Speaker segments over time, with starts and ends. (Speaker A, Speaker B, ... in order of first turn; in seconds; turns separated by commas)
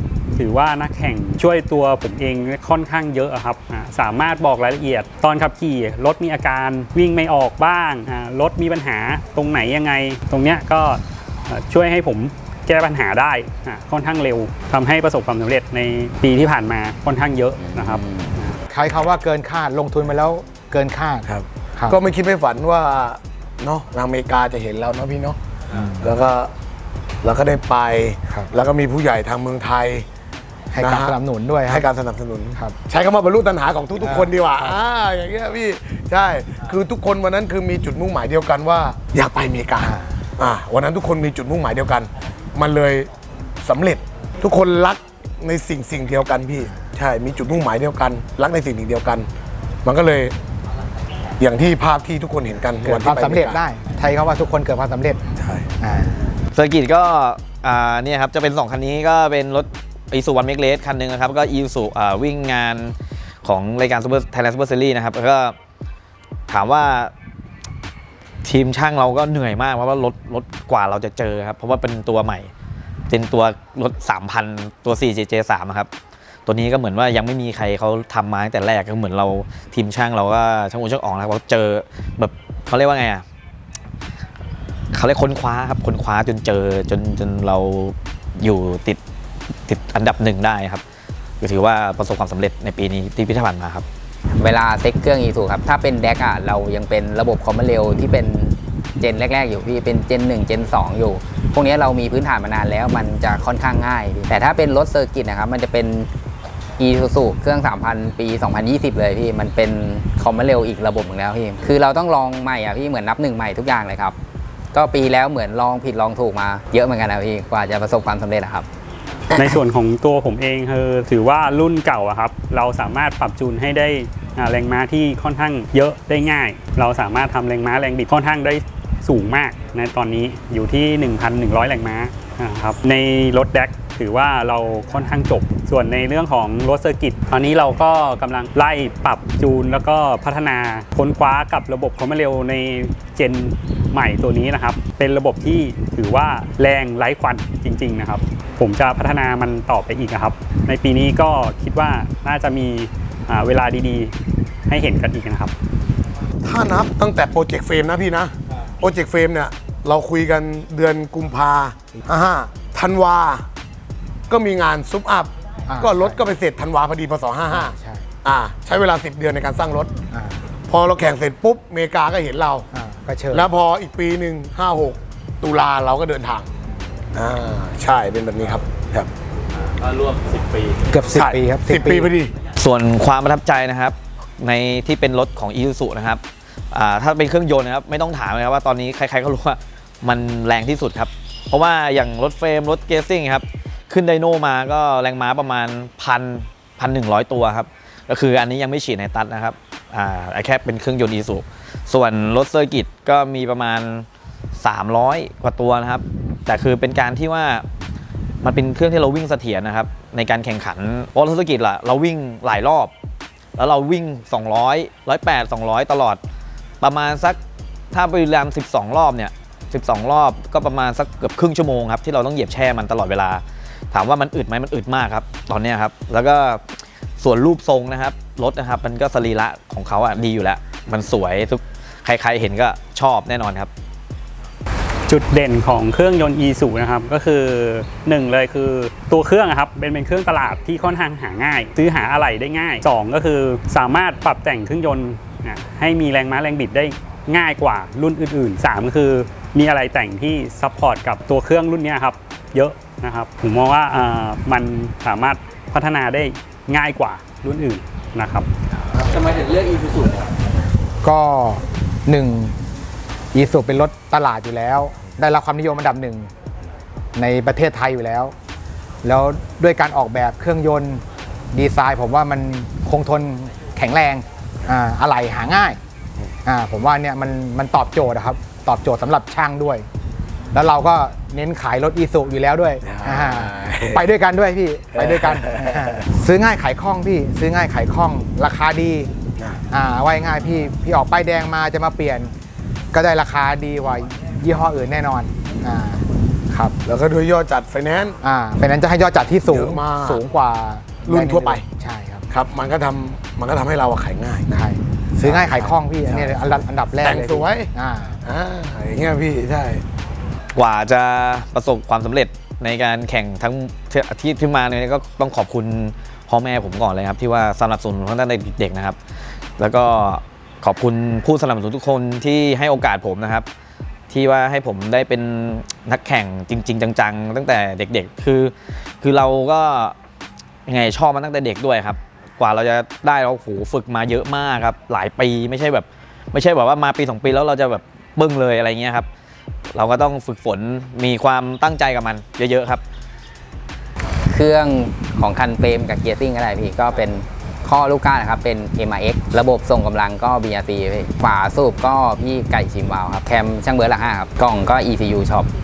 Speaker A: 0.3-18.6, Speaker B: 17.6-18.3, Speaker C: 18.7-22.0, Speaker D: 21.3-25.4, Speaker D: 26.0-26.5, Speaker D: 27.2-30.1, Speaker C: 30.7-31.9, Speaker D: 30.8-31.1, Speaker D: 31.7-43.1, Speaker C: 34.0-34.7, Speaker C: 39.8-40.1, Speaker D: 43.6-49.3, Speaker D: 49.8-50.3, Speaker D: 51.4-53.6, Speaker C: 52.8-55.3, Speaker D: 55.4-55.7, Speaker C: 55.8-56.2, Speaker E: 56.5-65.5, Speaker E: 66.5-67.1, Speaker E: 68.4-72.5, Speaker E: 73.1-75.9, Speaker E: 76.5-83.2, Speaker E: 84.9-89.0, Speaker E: 89.7-90.8, Speaker E: 91.4-93.8, Speaker B: 94.4-106.1, Speaker B: 106.8-114.2, Speaker B: 114.7-118.7, Speaker A: 119.3-154.1, Speaker A: 154.7-155.5, Speaker D: 156.4-163.4, Speaker D: 164.3-169.9, Speaker C: 165.7-166.2, Speaker C: 167.5-168.0, Speaker C: 170.1-170.4, Speaker D: 170.7-172.7, Speaker C: 172.7-173.5, Speaker D: 173.3-176.5, Speaker D: 177.1-179.1, Speaker E: 179.7-180.9, Speaker C: 180.9-182.1, Speaker D: 181.1-182.3, Speaker E: 182.6-204.1, Speaker E: 204.6-207.6, Speaker E: 208.4-212.9, Speaker E: 213.6-216.2, Speaker E: 216.8-217.4, Speaker E: 217.9-226.6, Speaker E: 227.2-233.7, Speaker A: 235.1-258.5, Speaker E: 259.1-260.1, Speaker C: 261.0-262.6, Speaker C: 263.3-266.3, Speaker C: 267.1-268.3, Speaker C: 269.0-275.8, Speaker C: 276.4-279.9, Speaker C: 280.5-289.1, Speaker D: 282.8-284.1, Speaker D: 284.9-286.0, Speaker C: 289.7-292.3, Speaker C: 292.9-296.7, Speaker D: 296.8-298.2, Speaker C: 298.2-302.2, Speaker D: 299.4-300.2, Speaker D: 301.1-301.6, Speaker D: 302.3-304.6, Speaker C: 304.5-308.2, Speaker D: 305.2-307.7, Speaker D: 308.2-309.8, Speaker E: 310.5-319.0, Speaker E: 319.6-323.4, Speaker E: 324.1-329.9, Speaker E: 330.7-339.1, Speaker E: 339.7-342.8, Speaker B: 344.3-355.5